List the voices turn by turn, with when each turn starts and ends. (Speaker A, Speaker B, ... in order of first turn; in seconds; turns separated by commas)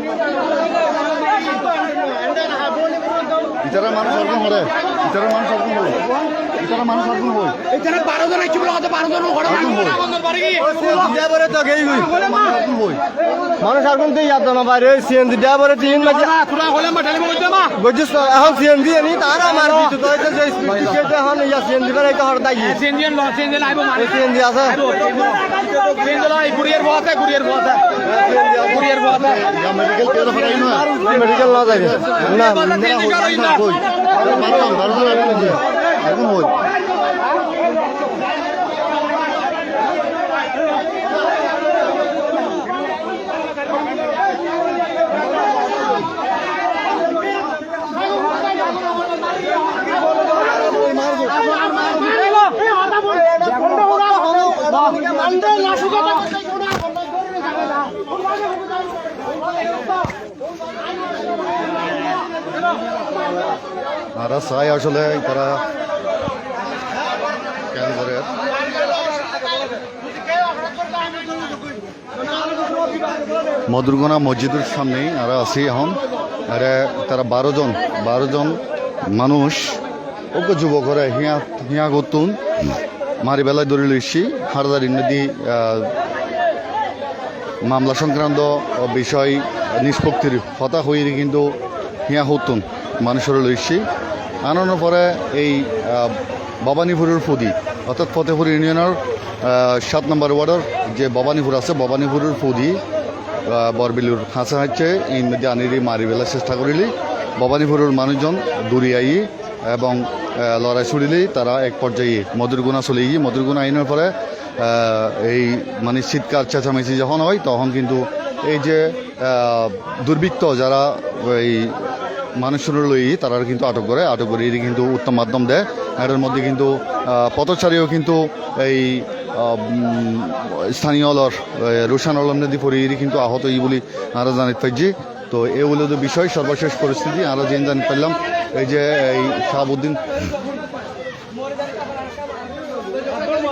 Speaker A: 3.6-6.0, Speaker A: 6.5-7.6, Speaker A: 9.4-10.1, Speaker B: 10.6-12.1, Speaker A: 12.1-13.0, Speaker B: 13.6-16.4, Speaker C: 16.2-17.7, Speaker B: 17.8-22.8, Speaker C: 22.6-24.1, Speaker B: 23.9-24.8, Speaker C: 24.9-25.2, Speaker C: 26.0-27.8, Speaker B: 28.1-28.6, Speaker C: 28.6-29.3, Speaker A: 29.1-36.6, Speaker B: 30.8-32.7, Speaker A: 64.2-65.6, Speaker A: 67.7-68.3, Speaker A: 73.7-79.8, Speaker A: 80.3-82.4, Speaker A: 83.2-85.9, Speaker A: 87.6-91.6, Speaker A: 92.1-93.8, Speaker A: 94.4-102.8, Speaker A: 103.5-140.0